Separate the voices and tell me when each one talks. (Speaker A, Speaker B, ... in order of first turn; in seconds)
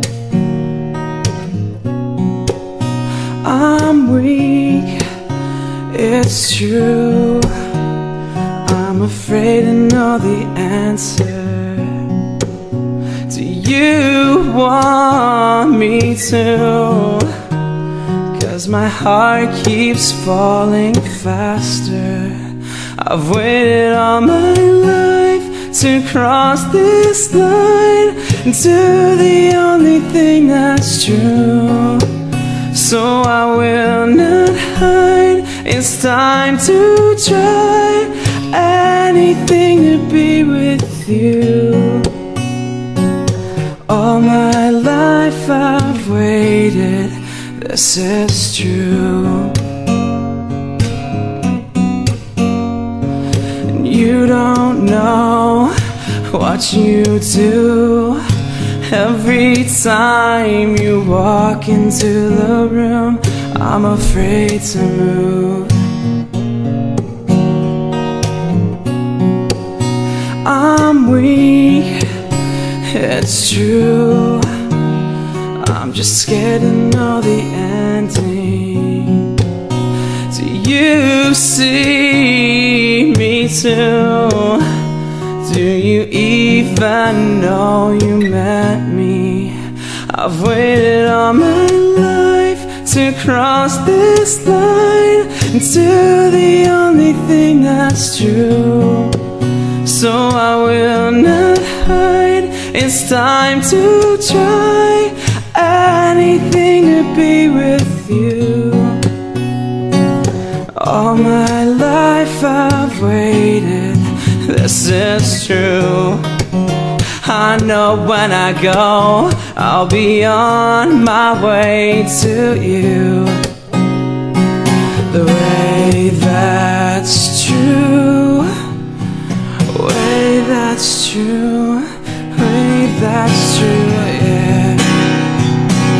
Speaker A: 3.4-5.0, 5.9-7.5, 8.6-11.9, 13.3-17.3, 18.3-22.4, 23.0-32.0, 32.7-42.1, 43.9-49.5, 53.7-55.7, 56.3-58.2, 58.9-65.7, 70.4-72.0, 72.9-74.5, 75.6-79.3, 80.3-84.6, 85.4-89.5, 90.1-99.1, 99.8-109.0, 110.7-116.2, 117.2-123.3, 125.1-128.5, 129.7-134.8